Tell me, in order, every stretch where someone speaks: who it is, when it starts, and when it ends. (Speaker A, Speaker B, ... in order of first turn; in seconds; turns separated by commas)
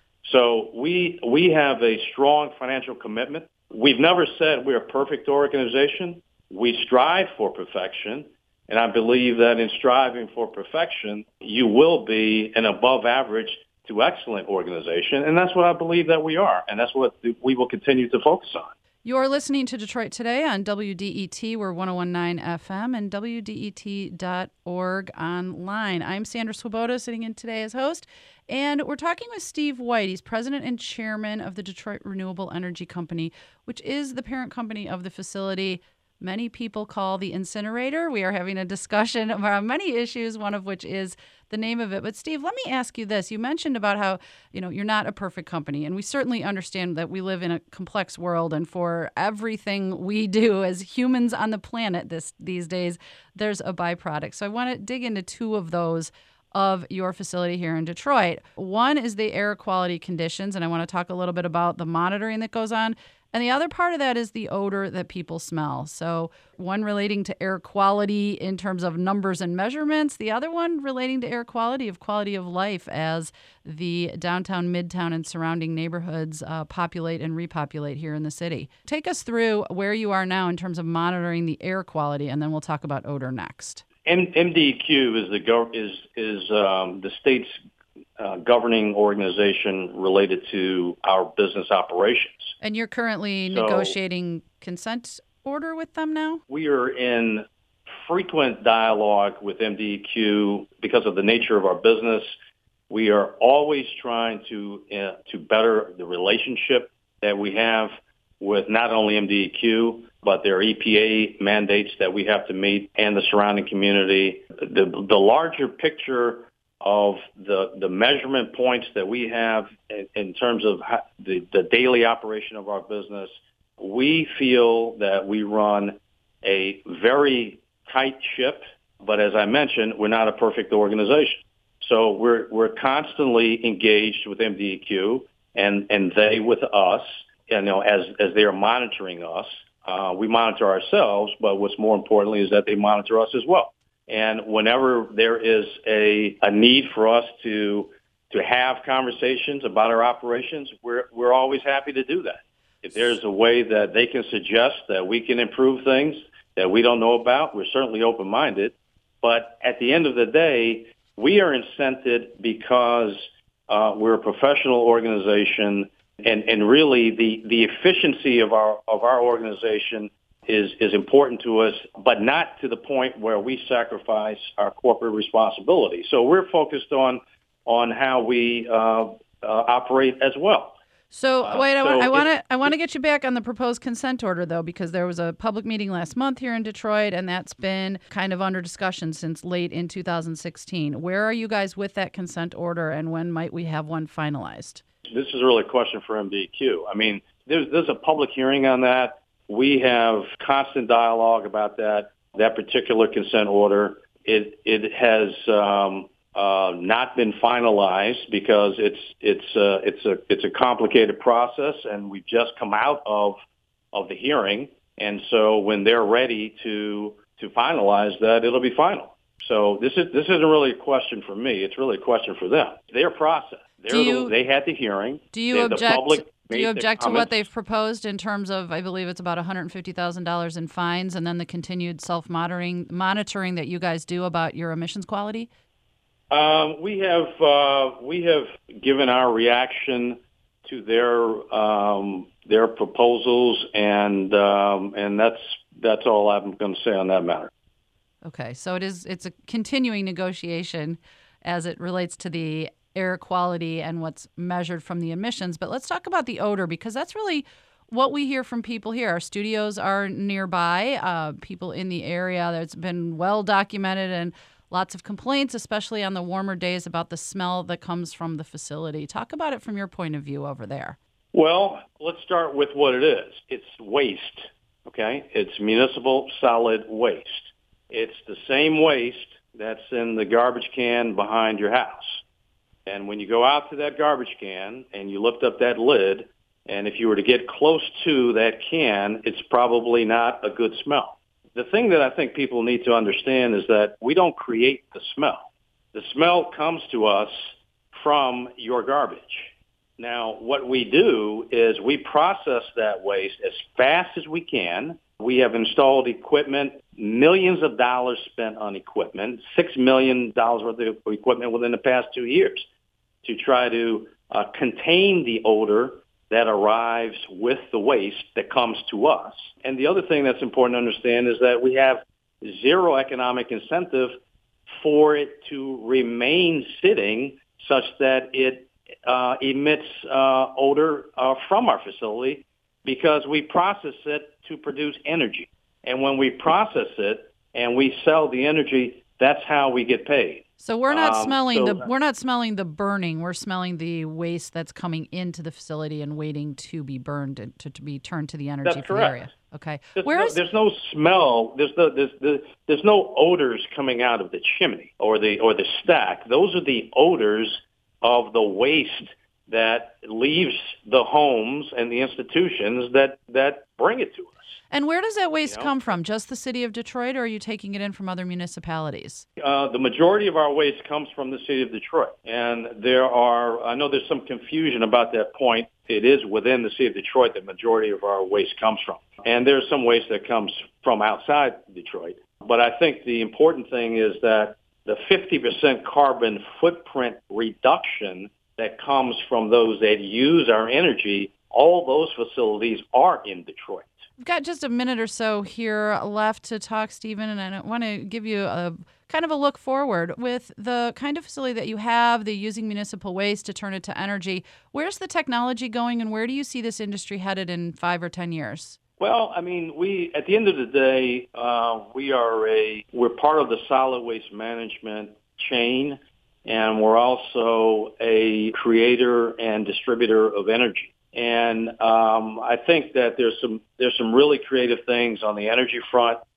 Speaker A: 0.2-18.7, Speaker B: 19.0-83.8, Speaker A: 84.0-87.5, Speaker A: 88.2-92.5, Speaker B: 92.6-96.4, Speaker A: 93.5-93.9, Speaker A: 96.5-102.3, Speaker A: 102.9-180.8, Speaker B: 181.1-194.8, Speaker A: 181.4-182.7, Speaker A: 195.1-213.4, Speaker A: 213.9-227.4, Speaker B: 223.9-224.3, Speaker B: 225.3-235.5, Speaker A: 236.3-247.5, Speaker B: 248.2-271.0, Speaker A: 271.3-282.2, Speaker A: 282.9-312.7, Speaker A: 313.2-324.2, Speaker A: 324.7-341.9, Speaker B: 340.6-350.4, Speaker A: 348.6-349.3, Speaker A: 350.0-364.4, Speaker B: 364.7-369.2, Speaker A: 365.5-365.7, Speaker A: 369.4-394.0, Speaker B: 394.2-408.8, Speaker A: 409.0-426.2